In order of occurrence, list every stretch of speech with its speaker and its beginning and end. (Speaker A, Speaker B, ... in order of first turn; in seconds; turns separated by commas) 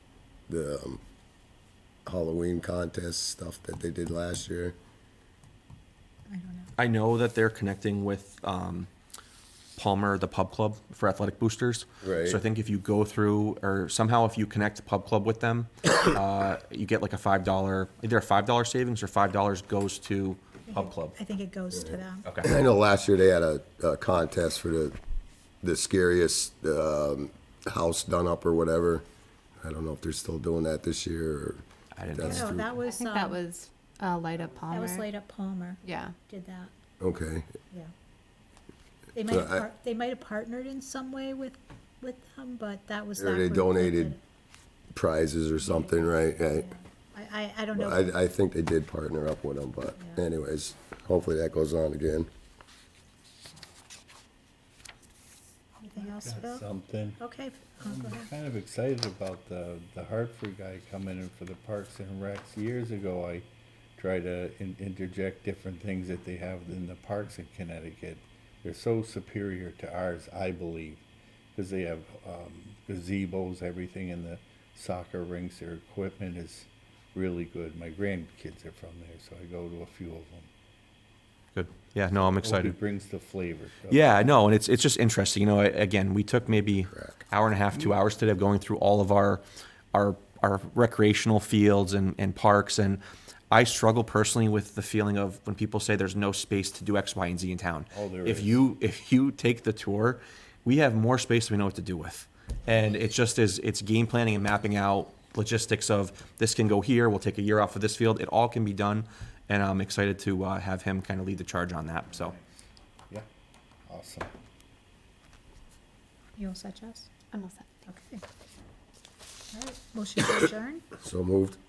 Speaker A: 0.5-1.0, Speaker A: 2.1-4.8, Speaker B: 6.3-6.7, Speaker C: 6.8-8.9, Speaker C: 9.8-21.1, Speaker A: 12.0-12.4, Speaker B: 20.7-22.3, Speaker A: 21.8-25.0, Speaker A: 25.6-29.1, Speaker A: 29.6-32.7, Speaker C: 31.9-32.5, Speaker B: 32.2-33.4, Speaker D: 32.8-35.1, Speaker B: 34.7-36.7, Speaker D: 35.8-36.2, Speaker A: 37.0-37.5, Speaker B: 39.1-44.2, Speaker A: 39.3-39.7, Speaker A: 43.2-44.1, Speaker A: 44.9-46.7, Speaker B: 45.6-45.9, Speaker B: 46.5-48.1, Speaker A: 47.8-52.3, Speaker B: 55.8-56.6, Speaker E: 55.9-57.2, Speaker B: 57.2-58.3, Speaker E: 57.8-80.5, Speaker C: 81.5-82.8, Speaker E: 82.1-84.3, Speaker C: 83.9-112.3, Speaker A: 86.9-87.2, Speaker E: 97.9-98.7, Speaker E: 112.1-113.3, Speaker E: 113.9-114.3, Speaker B: 116.4-117.1, Speaker D: 117.3-117.7, Speaker B: 117.9-118.2, Speaker B: 119.5-120.9, Speaker A: 121.0-121.6